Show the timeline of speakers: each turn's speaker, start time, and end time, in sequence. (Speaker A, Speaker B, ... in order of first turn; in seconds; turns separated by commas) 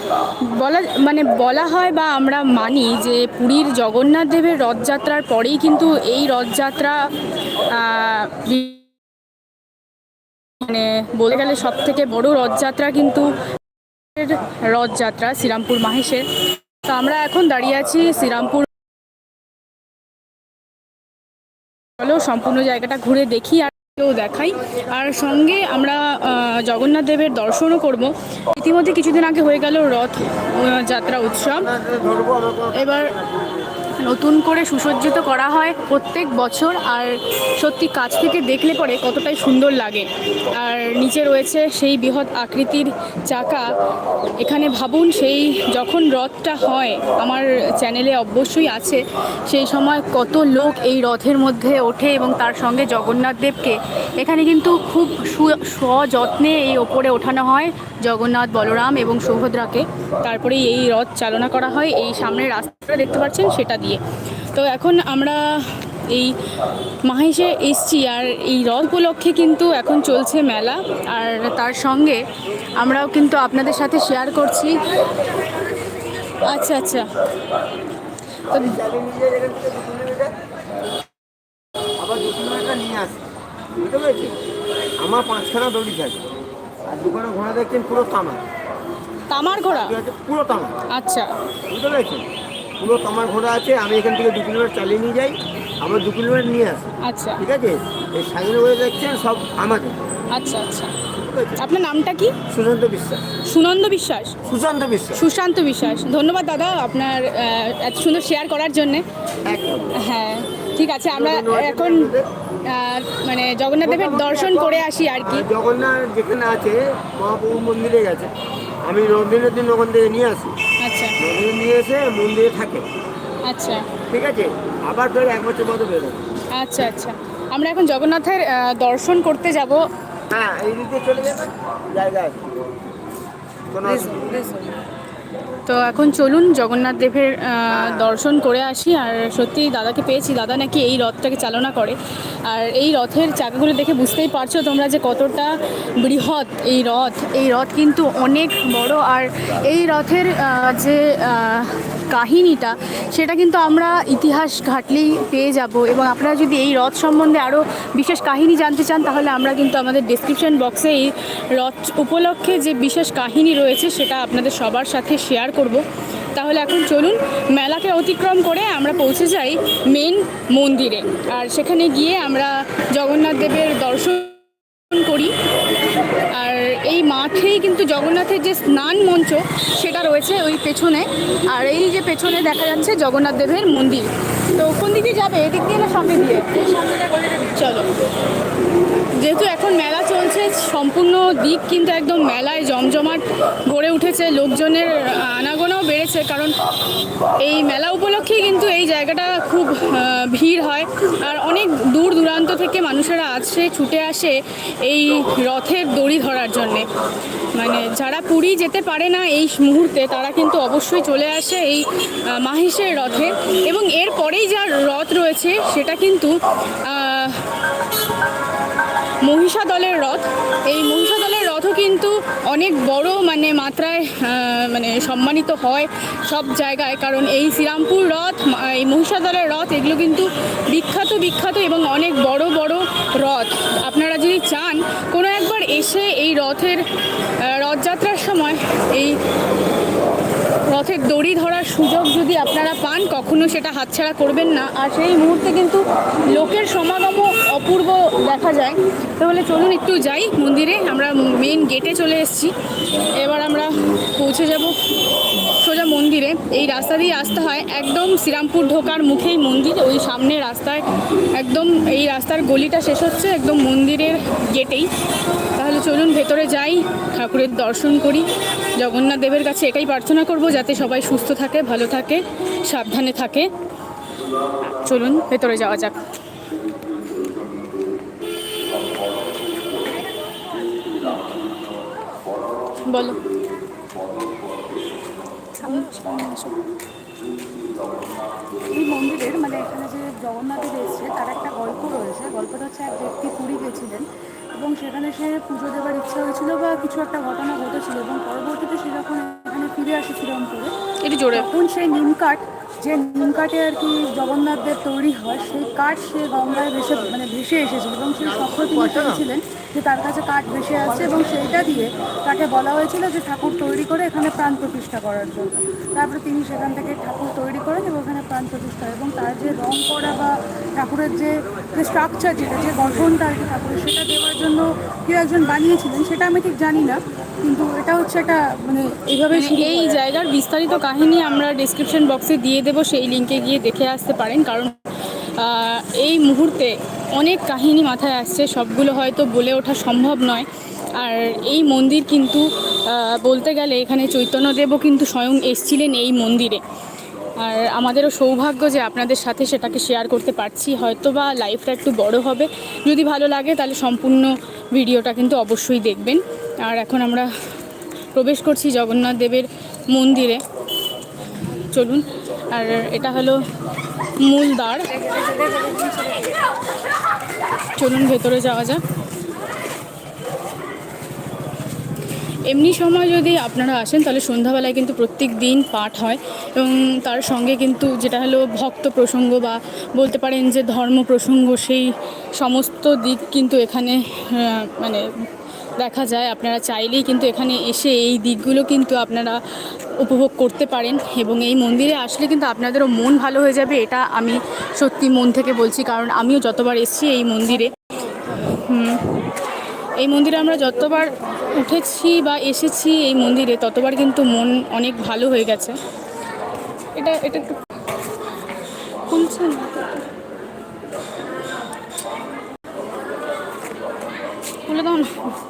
Speaker A: 0.4-7.0, Speaker A: 7.6-8.8, Speaker A: 10.6-13.3, Speaker A: 14.1-16.2, Speaker A: 16.8-18.7, Speaker A: 22.0-31.7, Speaker B: 31.5-33.7, Speaker A: 32.7-33.1, Speaker A: 34.0-43.7, Speaker A: 44.4-64.0, Speaker A: 64.5-66.3, Speaker A: 67.0-72.2, Speaker A: 72.8-74.8, Speaker A: 76.4-77.1, Speaker B: 78.5-80.3, Speaker B: 82.0-83.2, Speaker B: 83.8-84.3, Speaker B: 85.0-86.2, Speaker B: 86.9-88.4, Speaker A: 89.3-90.0, Speaker B: 89.5-90.7, Speaker A: 90.9-91.3, Speaker B: 91.7-92.2, Speaker B: 92.8-100.0, Speaker A: 97.0-97.4, Speaker A: 100.3-101.0, Speaker B: 101.1-101.6, Speaker A: 101.5-102.3, Speaker B: 102.5-103.2, Speaker A: 103.4-104.4, Speaker B: 104.4-105.2, Speaker A: 105.1-109.0, Speaker B: 109.4-109.9, Speaker A: 110.0-115.5, Speaker B: 111.1-112.3, Speaker B: 113.8-118.3, Speaker B: 118.8-120.5, Speaker A: 120.8-121.2, Speaker B: 121.2-122.8, Speaker A: 123.5-123.8, Speaker B: 124.1-126.2, Speaker A: 126.5-129.8, Speaker B: 130.3-132.4, Speaker B: 133.7-134.5, Speaker C: 134.0-134.7, Speaker A: 135.7-165.8, Speaker B: 137.7-138.1, Speaker A: 166.3-175.3, Speaker A: 176.2-187.9, Speaker A: 189.2-196.5, Speaker A: 197.4-206.9, Speaker A: 207.6-217.5, Speaker A: 219.2-236.8, Speaker A: 237.4-239.2, Speaker A: 240.6-254.8, Speaker A: 255.3-264.9, Speaker A: 265.5-268.2, Speaker A: 268.8-273.5, Speaker A: 274.6-276.1, Speaker A: 282.9-283.2, Speaker A: 285.6-286.6, Speaker C: 288.7-300.7, Speaker A: 301.0-301.5, Speaker C: 301.3-330.0, Speaker B: 308.5-309.2, Speaker A: 329.3-334.7, Speaker A: 335.4-346.6, Speaker A: 347.4-357.3, Speaker A: 358.1-360.4, Speaker A: 361.5-363.4, Speaker A: 364.2-365.0, Speaker C: 364.9-366.4, Speaker A: 367.8-368.8, Speaker A: 372.5-385.0, Speaker A: 385.8-389.4, Speaker A: 390.0-397.7, Speaker C: 397.6-398.6, Speaker A: 398.4-399.4, Speaker A: 400.0-405.8, Speaker C: 400.6-401.7, Speaker A: 406.9-407.6, Speaker A: 409.1-410.0, Speaker A: 414.6-415.1